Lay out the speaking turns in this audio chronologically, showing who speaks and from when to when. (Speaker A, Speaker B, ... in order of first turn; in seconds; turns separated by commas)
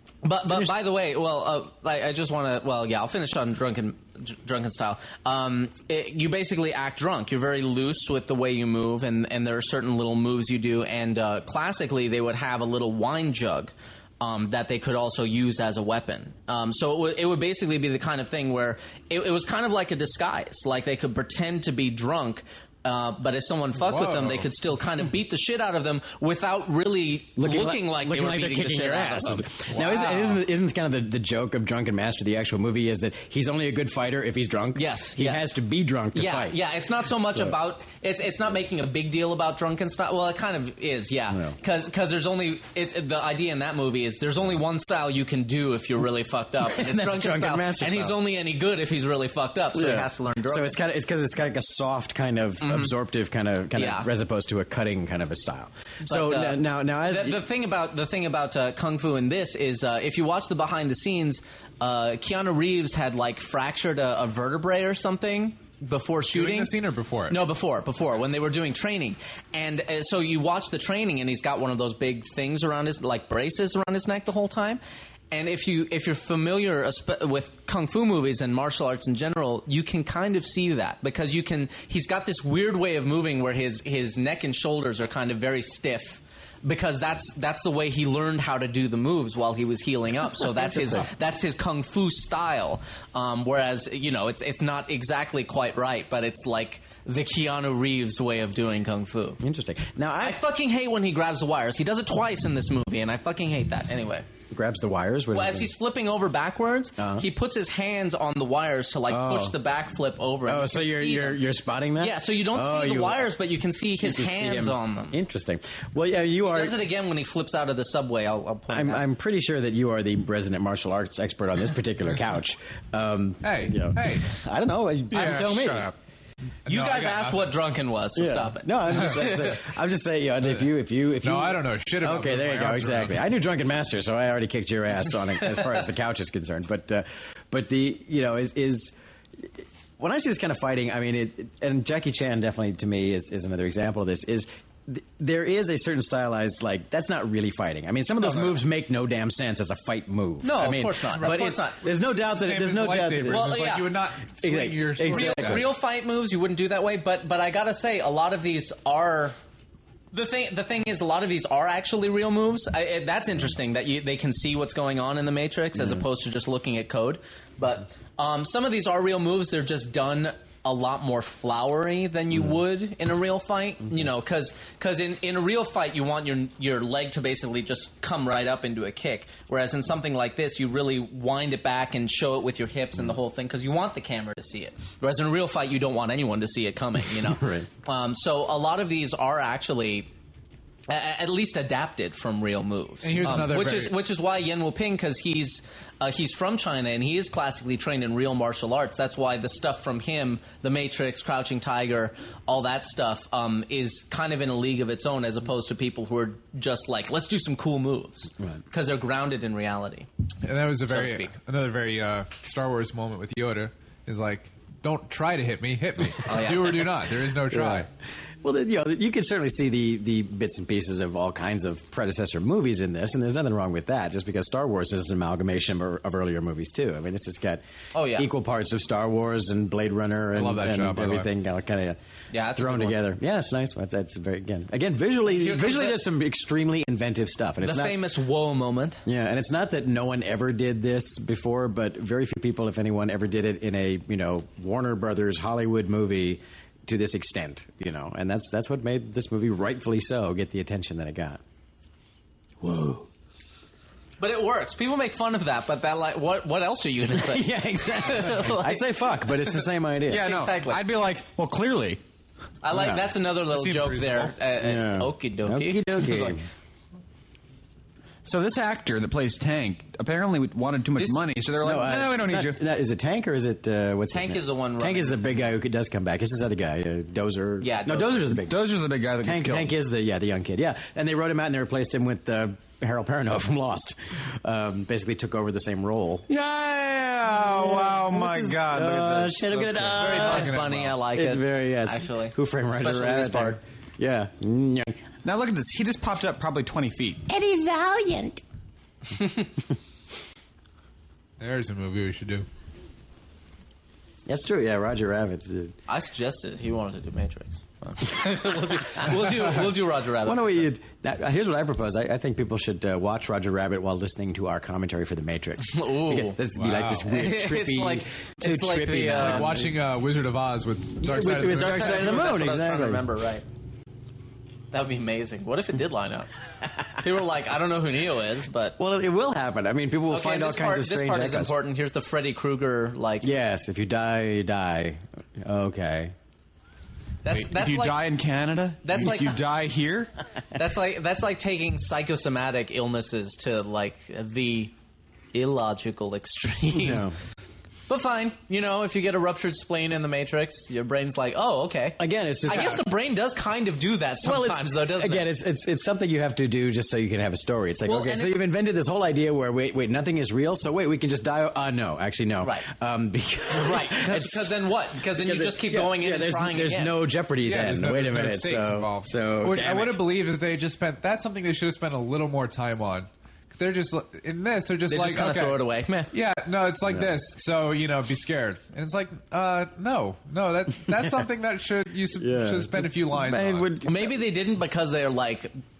Speaker A: 0.2-30.4, Speaker B: 23.8-24.5, Speaker C: 27.4-36.6, Speaker A: 34.7-35.5, Speaker A: 36.1-50.8, Speaker C: 46.6-48.2, Speaker C: 49.7-57.4, Speaker A: 52.6-52.9, Speaker A: 53.7-54.1, Speaker A: 56.0-66.7, Speaker B: 66.3-67.4, Speaker A: 67.3-99.4, Speaker C: 90.6-91.1, Speaker C: 99.4-100.4, Speaker A: 100.2-104.3, Speaker C: 104.5-105.7, Speaker A: 105.3-115.2, Speaker C: 107.0-107.2, Speaker C: 109.1-109.6, Speaker C: 110.5-113.3, Speaker C: 114.0-116.8, Speaker A: 116.5-119.0, Speaker C: 118.7-125.9, Speaker B: 123.4-124.4, Speaker D: 125.1-125.9, Speaker B: 126.7-127.5, Speaker A: 126.7-129.6, Speaker C: 128.2-153.6, Speaker B: 131.2-133.2, Speaker A: 150.4-151.9, Speaker B: 152.1-155.7, Speaker A: 153.3-153.9, Speaker C: 154.4-155.7, Speaker A: 155.1-159.4, Speaker A: 160.1-190.1, Speaker C: 187.3-187.7, Speaker A: 190.9-210.1, Speaker B: 193.0-193.9, Speaker B: 210.4-217.9, Speaker A: 210.9-211.3, Speaker A: 216.2-216.9, Speaker C: 217.5-217.9, Speaker C: 218.4-227.6, Speaker A: 227.9-228.3, Speaker C: 228.2-232.0, Speaker B: 230.3-231.3, Speaker A: 232.3-233.0, Speaker C: 232.6-238.0, Speaker A: 235.2-236.0, Speaker A: 237.6-239.0, Speaker C: 239.0-251.4, Speaker C: 252.6-253.1, Speaker A: 254.2-258.8, Speaker C: 257.1-260.3, Speaker A: 260.1-260.8, Speaker D: 260.1-262.0, Speaker A: 262.6-266.4, Speaker C: 262.7-263.1, Speaker B: 263.4-264.3, Speaker C: 264.6-266.4, Speaker D: 268.2-272.6, Speaker C: 271.6-278.6, Speaker A: 274.1-275.4, Speaker A: 277.6-278.3, Speaker D: 278.5-279.7, Speaker C: 279.2-286.2, Speaker D: 286.3-289.9, Speaker C: 287.4-294.9, Speaker B: 289.9-290.9, Speaker A: 289.9-293.6, Speaker D: 295.2-297.3, Speaker C: 297.3-298.4, Speaker B: 301.4-302.4, Speaker C: 304.2-305.7, Speaker A: 305.9-310.6, Speaker C: 310.2-319.8, Speaker A: 315.6-316.4, Speaker B: 316.5-317.1, Speaker A: 317.0-319.6, Speaker B: 319.1-322.1, Speaker C: 321.0-323.0, Speaker A: 321.4-323.4, Speaker A: 324.7-326.3, Speaker A: 327.0-328.8, Speaker C: 328.8-331.5, Speaker A: 330.1-333.3, Speaker C: 333.2-336.1, Speaker A: 337.2-338.0, Speaker D: 337.3-340.1, Speaker A: 338.8-339.4, Speaker A: 340.5-344.7, Speaker A: 345.3-347.1, Speaker C: 346.7-347.1, Speaker A: 347.9-355.3, Speaker C: 352.0-352.8, Speaker C: 354.2-370.0, Speaker A: 357.8-358.4, Speaker A: 363.5-367.0, Speaker B: 367.4-383.7, Speaker A: 374.9-376.1, Speaker C: 376.8-377.2, Speaker C: 382.2-384.2, Speaker A: 383.8-385.5